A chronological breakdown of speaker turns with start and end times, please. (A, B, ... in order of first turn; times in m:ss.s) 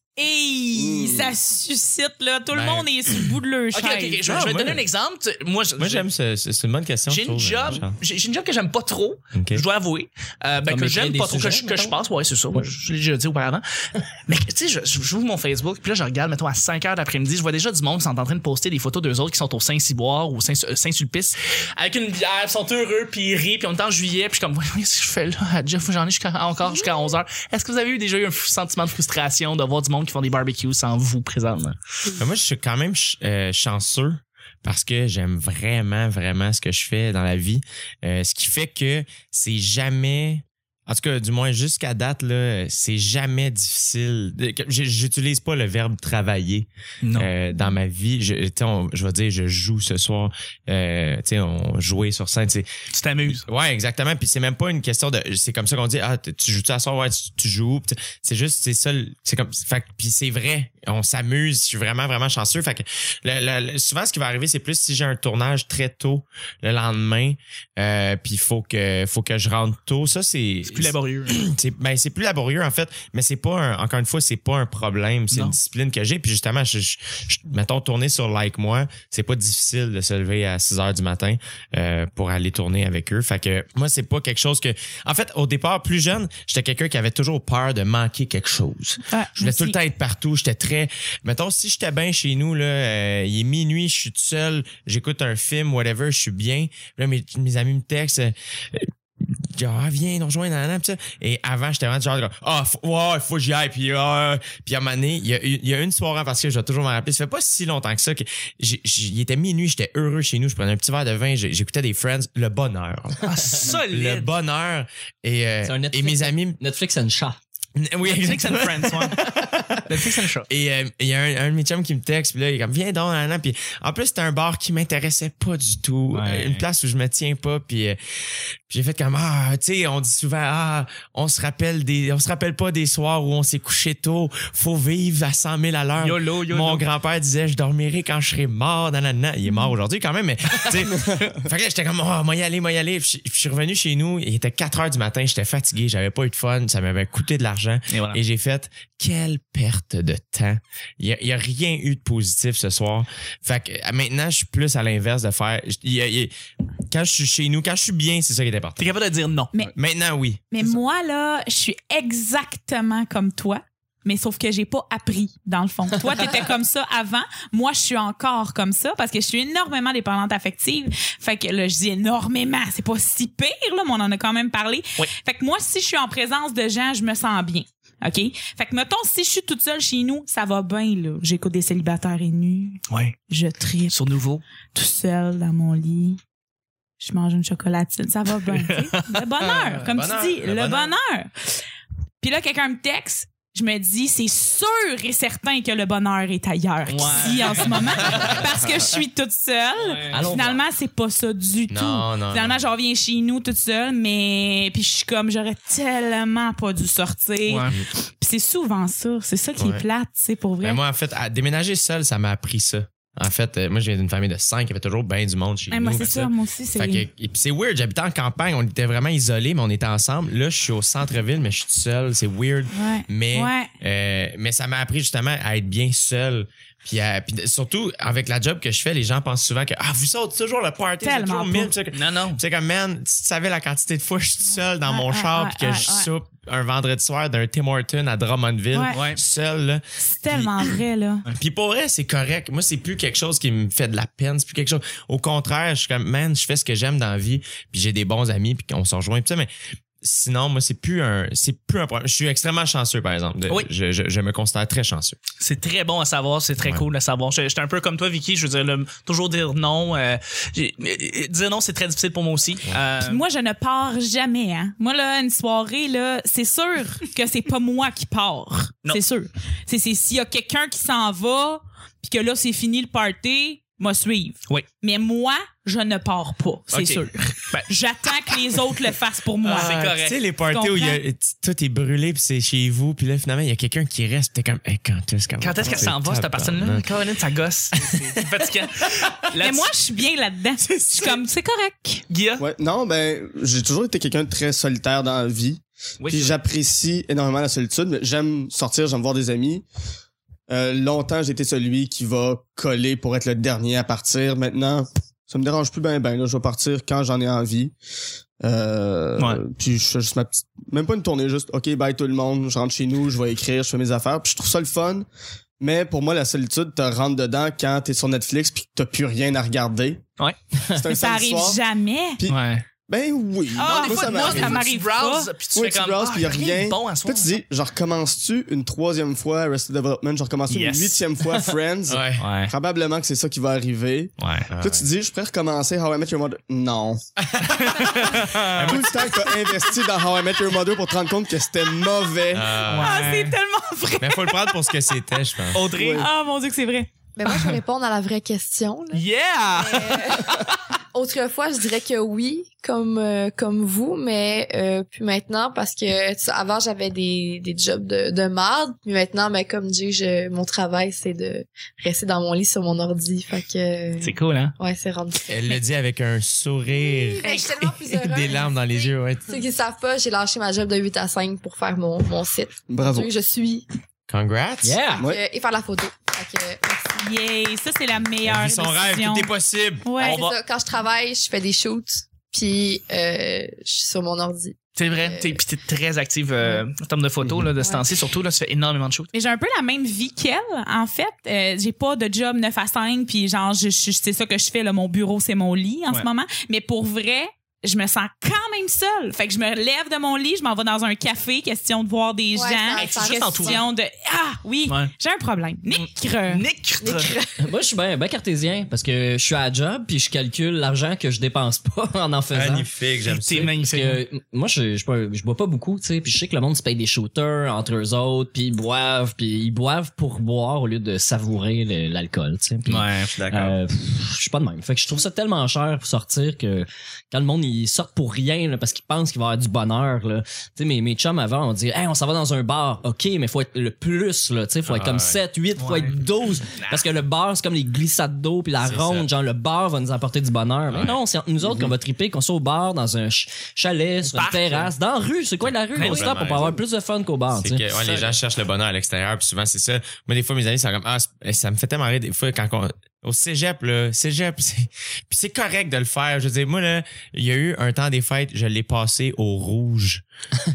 0:00.2-0:04.3 A
0:00.7-0:01.4 B
0:02.5-0:02.9 C
0:03.7-0:06.1 D
0:04.3-0:04.9 C
0:05.8-0:08.0 C
0:07.1-0:13.6 D
0:09.4-0:09.6 C
0:10.7-0:12.0 E
0:14.3-0:31.8 D
0:26.6-0:27.2 F
0:32.2-0:52.7 C
0:47.0-0:47.3 D
0:52.9-0:53.4 D
0:53.3-1:38.9 C
1:10.7-1:11.4 D
1:15.3-1:15.6 D
1:29.1-1:29.8 A
1:39.5-1:56.6 C
1:53.2-1:54.3 D
1:55.6-1:57.4 E
1:57.8-2:08.0 C
1:58.0-1:59.2 D
1:59.9-2:00.5 D
2:06.1-2:06.6 D
2:08.7-2:36.3 C
2:16.0-2:16.8 D
2:27.9-2:28.2 D
2:36.9-2:38.9 C
2:38.8-2:39.5 D
2:39.8-2:40.7 C
2:40.5-3:04.0 A
3:02.9-3:03.2 D
3:03.9-3:04.4 D
3:04.7-3:06.2 A
3:07.0-3:11.5 A
3:08.5-3:09.8 D
3:09.9-3:11.0 C
3:12.2-3:30.8 A
3:16.9-3:18.4 D
3:19.8-3:20.3 D
3:20.1-3:20.6 E
3:21.7-3:22.6 C
3:27.5-3:27.8 D
3:29.6-3:29.8 C
3:30.6-4:00.8 C
3:35.7-3:37.1 A
3:42.7-3:43.7 A
3:51.0-3:51.7 A
3:51.9-3:52.4 D
3:54.9-3:56.1 A
3:58.7-3:59.0 A
3:58.9-3:59.2 D
4:00.0-4:01.3 A
4:01.4-4:09.5 C
4:10.0-4:15.2 C
4:15.4-4:23.2 D
4:16.6-4:16.8 C
4:23.0-4:39.8 A
4:36.7-4:37.7 D
4:38.3-4:38.6 D
4:39.4-4:40.2 D
4:39.5-4:46.9 C
4:40.5-4:41.0 A
4:45.4-4:49.7 D
4:49.4-4:52.0 A
4:50.6-4:51.2 D
4:52.1-4:52.4 D
4:52.4-4:59.6 B
4:56.0-4:56.4 D
5:00.5-5:07.7 B
5:08.4-5:15.1 B
5:15.6-5:20.0 B
5:20.6-5:21.6 B
5:20.9-5:22.2 A
5:22.2-5:24.7 B
5:22.3-5:22.6 D
5:23.5-5:25.3 A
5:23.6-5:27.4 D
5:25.5-5:37.0 B
5:30.5-5:31.0 D
5:31.9-5:32.3 C
5:32.2-5:32.5 D
5:34.2-5:34.5 D
5:34.5-5:34.9 C
5:37.2-5:39.2 C
5:37.8-5:38.8 D
5:38.2-5:42.6 B
5:42.3-5:43.1 C
5:42.7-5:43.4 D
5:42.8-5:44.8 A
5:44.0-5:45.7 C
5:45.5-5:46.1 D
5:45.7-5:46.1 B
5:46.0-5:46.9 A
5:47.2-6:05.6 F
5:48.9-5:50.3 D
6:04.0-6:04.5 D
6:05.3-6:09.4 C
6:06.8-6:13.7 F
6:12.7-6:13.1 B
6:14.1-6:14.8 C
6:14.6-6:15.0 E
6:15.0-6:17.0 F
6:17.0-6:19.3 A
6:18.2-6:19.9 C
6:19.8-6:20.2 A
6:20.0-6:25.4 F
6:20.0-6:20.4 D
6:24.8-6:29.1 D
6:26.4-6:26.6 F
6:27.6-6:27.9 F
6:29.1-6:46.4 A
6:42.4-6:43.7 F
6:42.7-6:43.7 D
6:44.7-6:45.0 D
6:45.7-6:47.1 D
6:46.8-6:47.3 F
6:47.4-6:52.7 E
6:52.3-6:53.5 C
6:53.2-6:54.0 D
6:53.4-7:27.6 E
7:02.7-7:03.2 D
7:03.1-7:03.6 C
7:14.7-7:15.2 C
7:15.6-7:16.0 D
7:18.6-7:19.1 C
7:20.7-7:21.0 C
7:24.1-7:24.7 D
7:25.4-7:26.6 C
7:25.8-7:26.5 D
7:27.4-7:40.0 C
7:27.8-7:28.2 D